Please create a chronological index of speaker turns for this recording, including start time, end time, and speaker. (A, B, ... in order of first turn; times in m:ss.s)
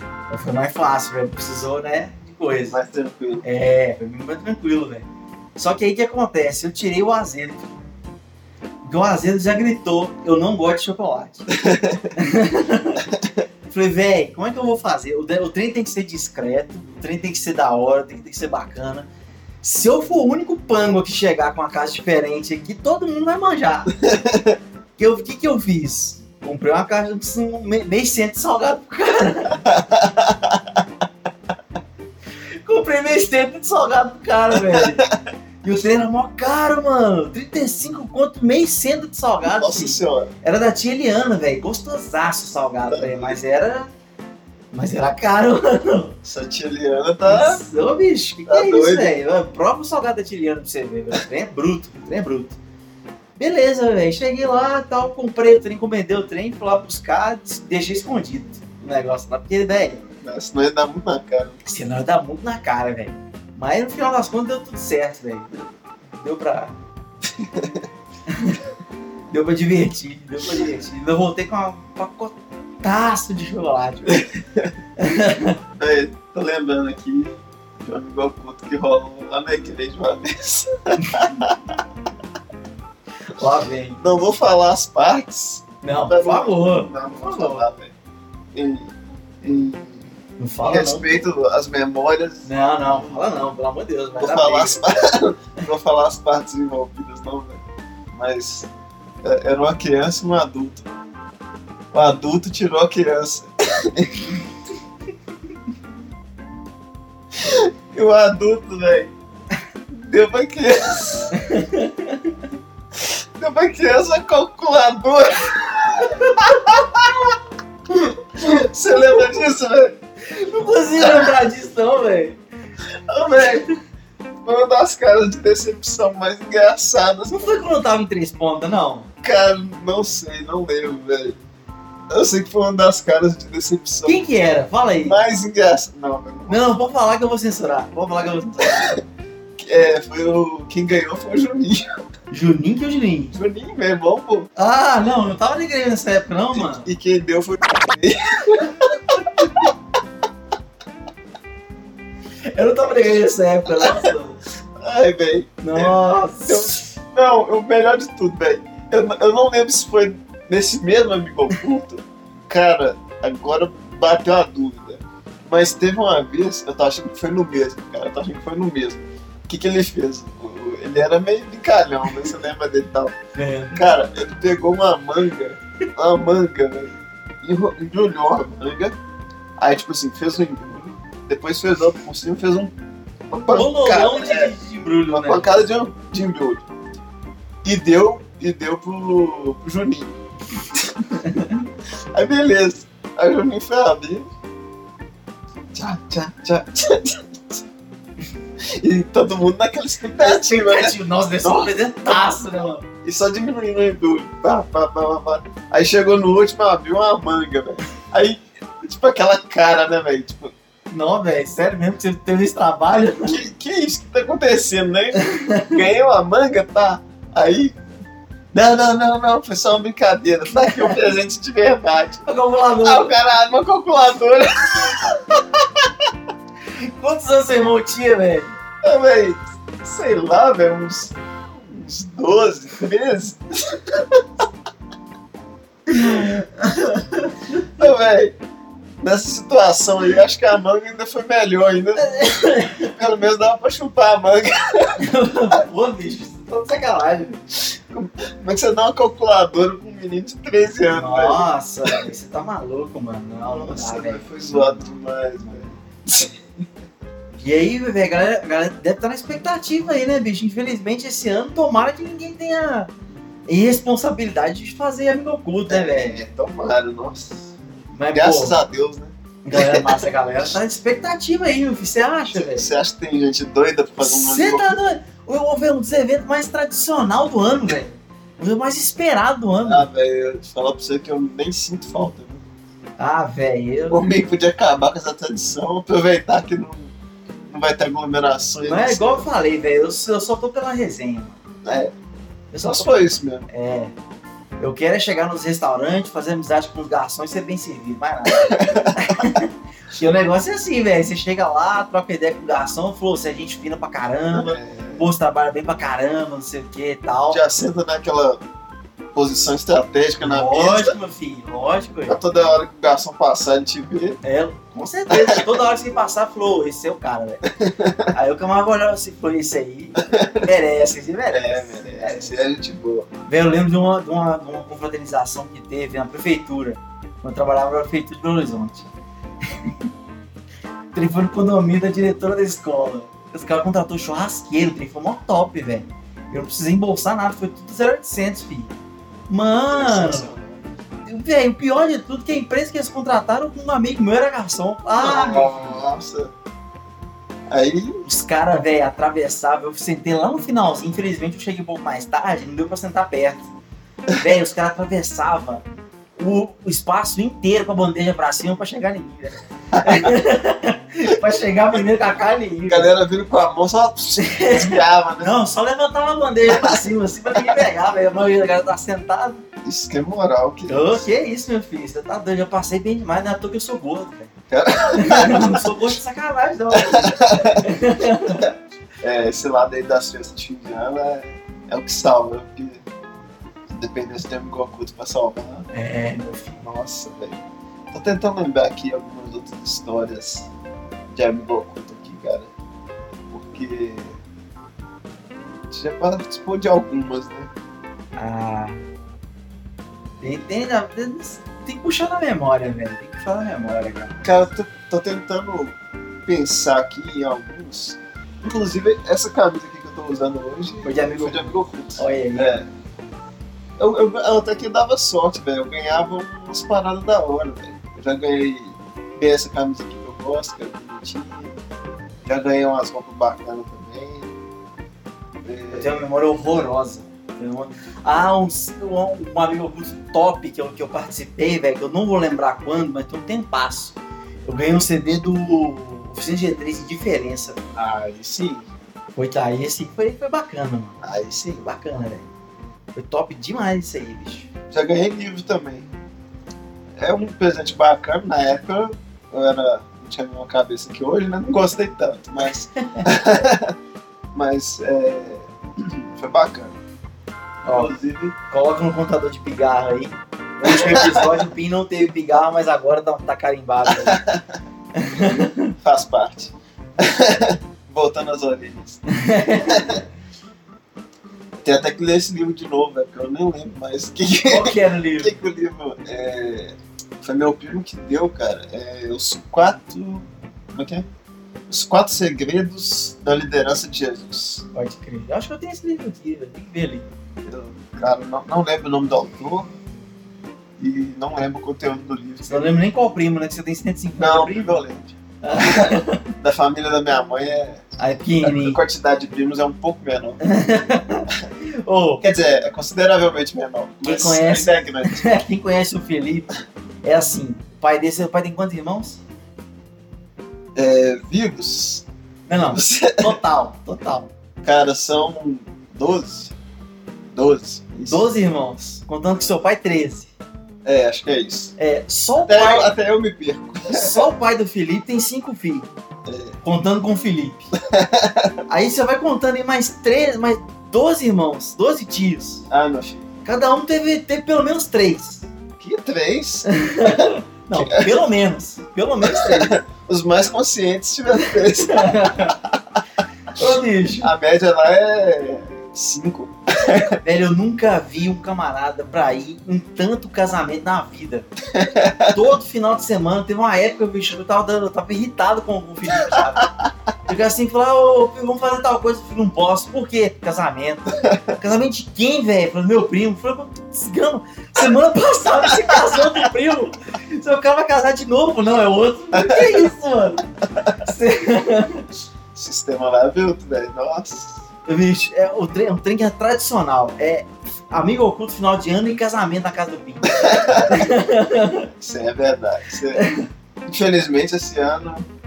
0:00.3-0:02.8 A
0:02.7-0:03.4 B
0:03.4-0:07.7 A
0:08.8-0:11.5 A
0:11.6-0:12.1 B
0:12.2-0:13.1 A
0:13.7-0:19.1 A
0:19.6-0:24.0 A
0:24.0-0:24.6 B
0:25.0-0:29.7 A
0:29.7-0:30.6 B
0:32.6-0:35.1 A
0:34.6-0:35.2 B
0:35.6-0:43.9 A
0:39.4-0:40.3 B
0:42.9-0:43.4 B
0:44.7-0:46.2 A
0:46.2-0:47.6 B
0:47.3-0:52.6 A
0:48.5-0:49.2 B
0:53.4-1:00.1 A
1:00.2-1:01.6 B
1:01.6-1:05.5 A
1:06.2-1:06.8 A
1:07.2-1:07.9 B
1:08.3-1:08.6 A
1:09.3-1:14.3 A
1:14.1-1:14.7 B
1:15.0-1:15.6 A
1:15.8-1:21.8 B
1:23.3-1:24.0 A
1:24.0-1:27.9 B
1:25.8-1:27.7 A
1:28.5-1:33.2 B
1:30.4-1:31.1 A
1:32.4-1:34.8 A
1:34.2-1:37.6 B
1:38.1-1:38.7 B
1:39.2-1:41.0 B
1:41.9-1:44.4 B
1:47.3-1:49.1 B
1:49.9-1:51.4 B
1:51.3-1:52.4 A
1:53.0-1:57.4 B
1:58.0-2:00.0 B
2:00.3-2:02.4 A
2:01.0-2:01.4 B
2:03.1-2:03.7 B
2:03.3-2:03.7 A
2:04.4-2:07.5 B
2:07.3-2:09.1 A
2:09.2-2:11.4 B
2:12.1-2:14.2 B
2:14.0-2:15.2 A
2:15.0-2:16.7 B
2:16.5-2:19.0 A
2:18.6-2:19.0 B
2:19.6-2:22.0 B
2:22.3-2:23.4 A
2:23.3-2:24.5 B
2:24.6-2:26.9 A
2:26.5-2:29.7 B
2:32.5-2:34.4 A
2:33.8-2:34.1 B
2:34.8-2:53.2 B
2:35.6-2:36.9 A
2:53.4-2:53.8 A
2:53.7-2:59.0 B
2:59.6-3:02.7 B
3:03.3-3:04.6 B
3:03.5-3:05.6 A
3:05.1-3:06.6 B
3:07.6-3:10.2 B
3:10.7-3:11.0 B
3:11.2-3:11.6 A
3:12.1-3:14.3 B
3:15.7-3:17.6 B
3:18.6-3:22.3 B
3:20.1-3:22.8 A
3:23.0-3:30.5 B
3:30.9-3:33.4 A
3:33.2-3:37.8 B
3:35.2-3:35.8 A
3:38.5-3:42.3 B
3:40.6-3:41.0 A
3:42.3-3:43.1 A
3:42.8-3:45.9 B
3:46.8-3:48.5 A
3:48.8-3:54.2 B
3:55.9-3:57.7 A
3:57.8-3:58.4 B
3:59.0-4:02.2 B
4:02.0-4:03.0 A
4:02.8-4:05.0 B
4:05.0-4:07.4 A
4:07.6-4:11.5 B
4:10.9-4:14.8 A
4:13.4-4:16.4 B
4:17.4-4:22.9 A
4:23.5-4:26.2 A
4:25.7-4:27.5 B
4:27.9-4:28.6 A
4:28.1-4:30.1 B
4:29.4-4:32.7 A
4:32.3-4:34.8 B
4:34.0-4:39.9 A
4:39.6-4:42.4 B
4:43.0-4:44.0 A
4:43.9-4:46.9 B
4:47.5-4:49.3 B
4:48.6-4:51.4 A
4:51.6-4:51.9 B
4:52.5-4:53.9 A
4:52.6-4:53.5 B
4:54.6-5:07.4 A
4:58.3-4:59.3 B
5:04.3-5:05.1 B
5:07.3-5:08.4 B
5:09.1-5:11.0 B
5:10.2-5:12.2 A
5:12.1-5:14.2 B
5:14.2-5:17.4 A
5:15.1-5:15.4 B
5:17.6-5:18.1 B
5:18.1-5:22.4 A
5:20.0-5:20.5 B
5:21.3-5:23.1 B
5:23.3-5:28.9 A
5:29.5-5:29.7 A
5:30.9-5:38.7 A
5:39.3-5:40.3 A
5:39.7-5:40.6 B
5:41.0-5:45.8 A
5:45.0-5:46.3 B
5:47.5-5:48.0 B
5:48.0-5:53.5 A
5:54.1-5:55.6 A
5:56.2-6:02.9 A
5:59.7-6:00.1 B
6:02.7-6:05.3 B
6:04.2-6:09.4 A
6:06.5-6:06.8 B
6:09.6-6:11.0 B
6:10.7-6:14.3 A
6:14.5-6:15.8 B
6:14.9-6:18.5 A
6:16.7-6:17.7 B
6:18.4-6:22.8 B
6:23.7-6:25.7 B
6:25.7-6:26.6 A
6:26.6-6:30.5 B
6:31.1-6:32.5 B
6:33.3-6:34.2 B
6:35.7-6:37.5 B
6:38.2-6:38.8 A
6:40.2-6:44.4 A
6:44.2-6:52.7 B
6:50.8-6:52.6 A
6:53.8-7:01.6 B
7:02.2-7:04.4 B
7:05.4-7:06.1 B
7:05.7-7:17.6 A
7:17.8-7:18.7 B
7:19.2-7:22.3 A
7:21.0-7:21.6 B
7:22.9-7:24.5 A
7:24.7-7:25.9 B
7:27.0-7:33.7 B
7:32.4-7:33.1 A
7:34.3-7:36.8 B
7:37.6-7:37.9 A
7:37.7-7:38.4 B
7:38.5-7:44.2 A
7:40.6-7:41.5 B
7:43.9-7:44.4 B
7:45.0-7:45.8 A
7:45.8-7:49.0 B
7:49.1-7:49.9 A
7:49.6-7:50.0 B
7:51.6-8:01.1 B
7:54.5-7:55.3 A
8:01.7-8:04.7 B
8:04.7-8:07.1 A
8:07.4-8:09.7 B
8:10.8-8:12.7 B
8:12.4-8:14.8 A
8:14.2-8:17.9 B
8:15.4-8:16.3 A
8:18.0-8:18.8 A
8:18.4-8:20.4 B
8:20.4-8:22.2 A
8:22.2-8:25.3 B
8:24.0-8:29.2 A
8:30.8-8:32.0 B
8:32.5-8:34.3 A
8:32.6-8:33.4 B
8:34.6-8:36.5 B
8:37.3-8:38.3 B
8:38.1-8:40.3 A
8:40.8-8:41.7 B
8:41.8-8:42.9 A
8:42.4-8:44.3 B
8:43.9-8:45.9 A
8:46.3-8:46.6 B
8:46.6-8:47.7 A
8:47.8-8:48.6 B
8:48.7-8:52.7 A
8:52.7-8:53.3 B
8:53.4-8:55.5 A
8:55.8-8:58.2 B
8:56.7-8:59.8 A
8:59.2-9:02.8 B
9:01.4-9:02.6 A
9:03.5-9:04.3 A
9:04.2-9:07.2 B
9:07.2-9:11.5 A
9:11.7-9:12.4 B
9:12.3-9:16.7 A
9:17.3-9:32.1 A
9:25.8-9:26.3 B
9:29.3-9:29.9 B
9:32.5-9:34.6 B
9:34.9-9:41.9 A
9:40.3-9:41.2 B
9:42.0-9:43.3 B
9:43.1-9:43.5 A
9:43.9-9:45.3 B